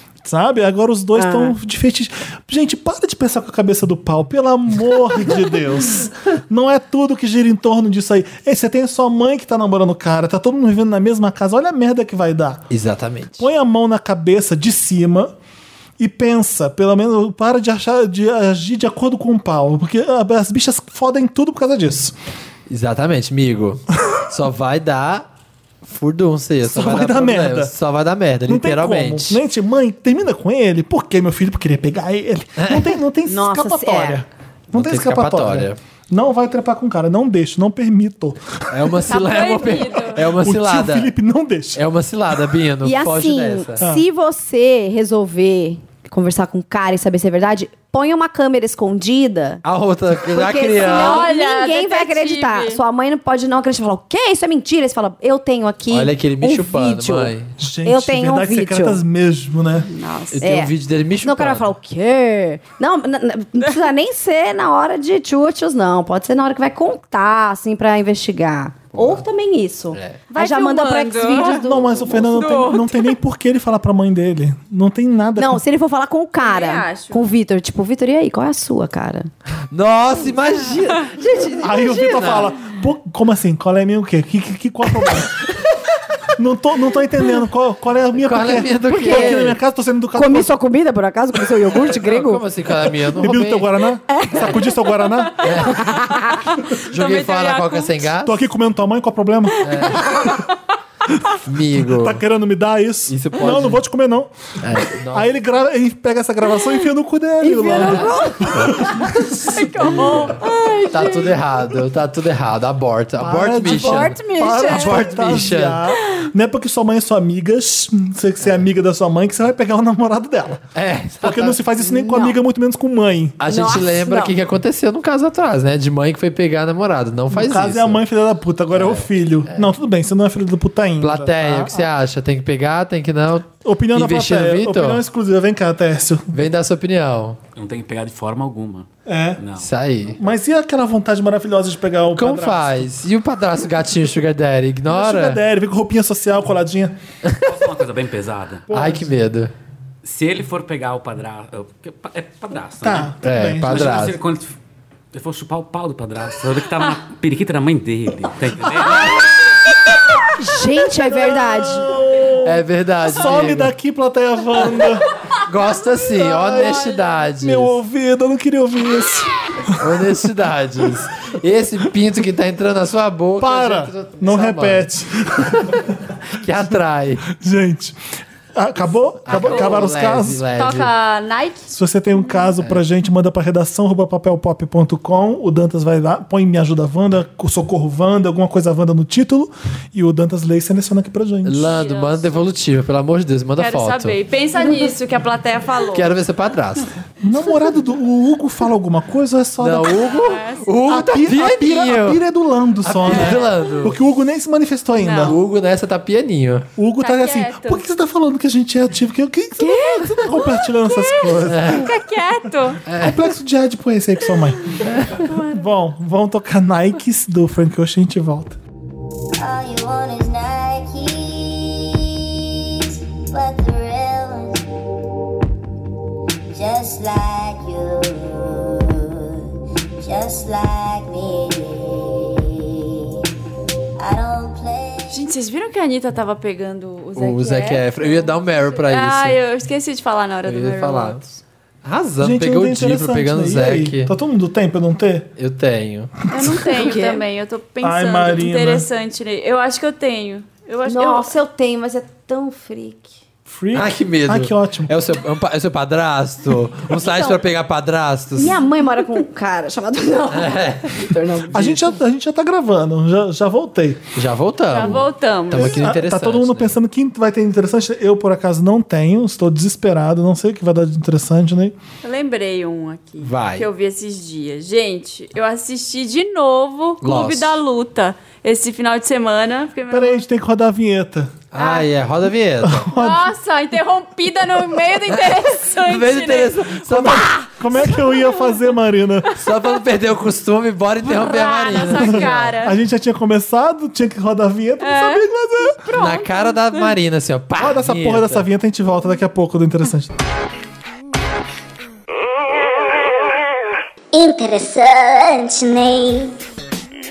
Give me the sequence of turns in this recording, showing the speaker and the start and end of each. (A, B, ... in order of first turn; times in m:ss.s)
0:00.2-0:12.6 A
0:01.1-0:01.6 B
0:12.7-0:13.5 C
0:13.4-0:15.3 A
0:16.0-0:22.1 A
0:22.7-0:25.2 C
0:25.8-0:29.4 C
0:26.6-0:27.7 A
0:28.5-0:39.0 A
0:32.6-0:33.0 C
0:33.2-0:34.2 B
0:34.7-0:35.8 C
0:38.7-0:41.1 C
0:39.1-0:40.2 D
0:40.2-0:41.8 A
0:41.7-0:43.8 C
0:42.8-0:49.6 B
0:49.6-0:51.3 C
0:50.3-0:57.3 B
0:50.8-0:52.8 D
0:55.9-0:57.5 C
0:57.6-0:59.9 A
0:57.8-0:59.0 B
0:59.8-1:00.4 D
1:00.3-1:01.6 C
1:00.4-1:00.7 B
1:01.2-1:12.3 B
1:08.9-1:09.2 C
1:09.9-1:10.2 C
1:10.3-1:11.6 D
1:11.4-1:15.6 A
1:12.2-1:13.1 D
1:15.4-1:19.3 B
1:16.4-1:17.2 D
1:19.7-1:22.6 C
1:21.6-1:25.5 A
1:26.3-1:30.5 A
1:28.1-1:29.6 C
1:28.9-1:29.4 B
1:30.1-1:32.4 B
1:31.7-1:33.7 C
1:33.2-1:35.5 A
1:34.1-1:34.8 B
1:35.4-1:36.0 C
1:35.7-1:36.5 B
1:36.6-1:38.1 D
1:36.9-1:38.4 C
1:38.2-1:40.0 A
1:39.6-1:40.2 C
1:39.9-1:40.2 D
1:41.4-1:42.2 C
1:41.7-1:44.3 A
1:43.1-1:43.8 C
1:44.6-1:45.3 C
1:45.0-1:49.5 A
1:47.4-1:48.8 B
1:47.7-1:48.1 C
1:49.5-1:51.3 D
1:49.8-1:50.4 C
1:49.8-1:50.8 B
1:50.9-1:55.8 C
1:53.2-2:00.7 A
1:53.6-1:55.1 B
2:00.7-2:01.6 C
2:01.2-2:03.4 A
2:01.8-2:02.4 B
2:03.4-2:08.0 C
2:03.4-2:04.3 B
2:07.3-2:11.9 A
2:08.7-2:09.7 C
2:11.0-2:15.0 C
2:13.6-2:16.4 A
2:16.3-2:17.4 C
2:17.6-2:19.7 E
2:19.0-2:19.4 A
2:19.6-2:20.2 C
2:20.2-2:22.9 A
2:22.2-2:25.4 C
2:24.9-2:27.0 A
2:27.4-2:28.7 E
2:28.7-2:29.1 A
2:28.7-2:29.5 C
2:30.0-2:34.5 E
2:32.8-2:33.9 A
2:33.2-2:34.2 C
2:35.1-2:39.6 E
2:40.3-2:42.0 B
2:40.9-2:45.1 A
2:42.4-2:43.7 C
2:45.4-2:47.8 C
2:46.2-2:50.3 A
2:49.8-2:54.9 C
2:53.4-2:55.9 A
2:55.4-2:55.8 C
2:56.3-2:57.2 C
2:57.3-2:58.0 A
2:58.5-3:00.4 A
2:59.2-3:00.9 C
2:59.3-2:59.9 D
3:00.5-3:01.7 D
3:01.7-3:11.7 A
3:11.4-3:14.2 C
3:11.7-3:12.4 D
3:13.6-3:16.1 D
3:15.9-3:16.9 C
3:17.2-3:20.2 A
3:19.6-3:22.2 C
3:19.9-3:20.7 D
3:20.9-3:25.4 A
3:22.8-3:24.0 C
3:25.0-3:25.3 D
3:25.2-3:26.7 C
3:26.8-3:31.9 A
3:27.0-3:27.8 D
3:29.6-3:32.8 D
3:31.4-3:31.9 C
3:32.8-3:33.2 C
3:32.9-3:34.8 A
3:34.8-3:35.3 C
3:35.1-3:35.6 D
3:35.4-3:38.6 A
3:39.3-3:44.6 F
3:46.5-3:49.4 F
3:50.0-3:52.9 F
3:54.0-3:55.2 F
3:55.1-4:01.4 D
3:57.2-3:59.4 C
4:00.4-4:01.2 C
4:01.8-4:04.1 C
4:02.2-4:05.3 A
4:05.4-4:06.1 C
4:06.3-4:11.3 D
4:06.6-4:07.2 B
4:07.8-4:08.9 A
4:10.8-4:13.1 B
4:13.4-4:14.9 A
4:13.7-4:18.6 C
4:16.9-4:17.4 B
4:18.4-4:22.0 B
4:20.3-4:21.1 C
4:21.5-4:24.1 A
4:24.1-4:26.8 C
4:24.7-4:25.9 D
4:25.5-4:31.8 A
4:32.0-4:40.2 D
4:33.2-4:33.7 C
4:37.0-4:37.6 C
4:39.9-4:41.4 A
4:41.5-4:42.9 C
4:41.6-4:41.9 D
4:42.6-4:43.3 A
4:42.9-4:48.6 D
4:45.1-4:47.5 C
4:46.9-4:49.4 A
4:49.4-4:52.6 C
4:51.0-4:52.8 D
4:51.9-4:55.8 A
4:54.8-4:56.9 D
4:55.9-4:58.5 C
4:57.6-5:00.1 A
5:04.1-5:06.4 F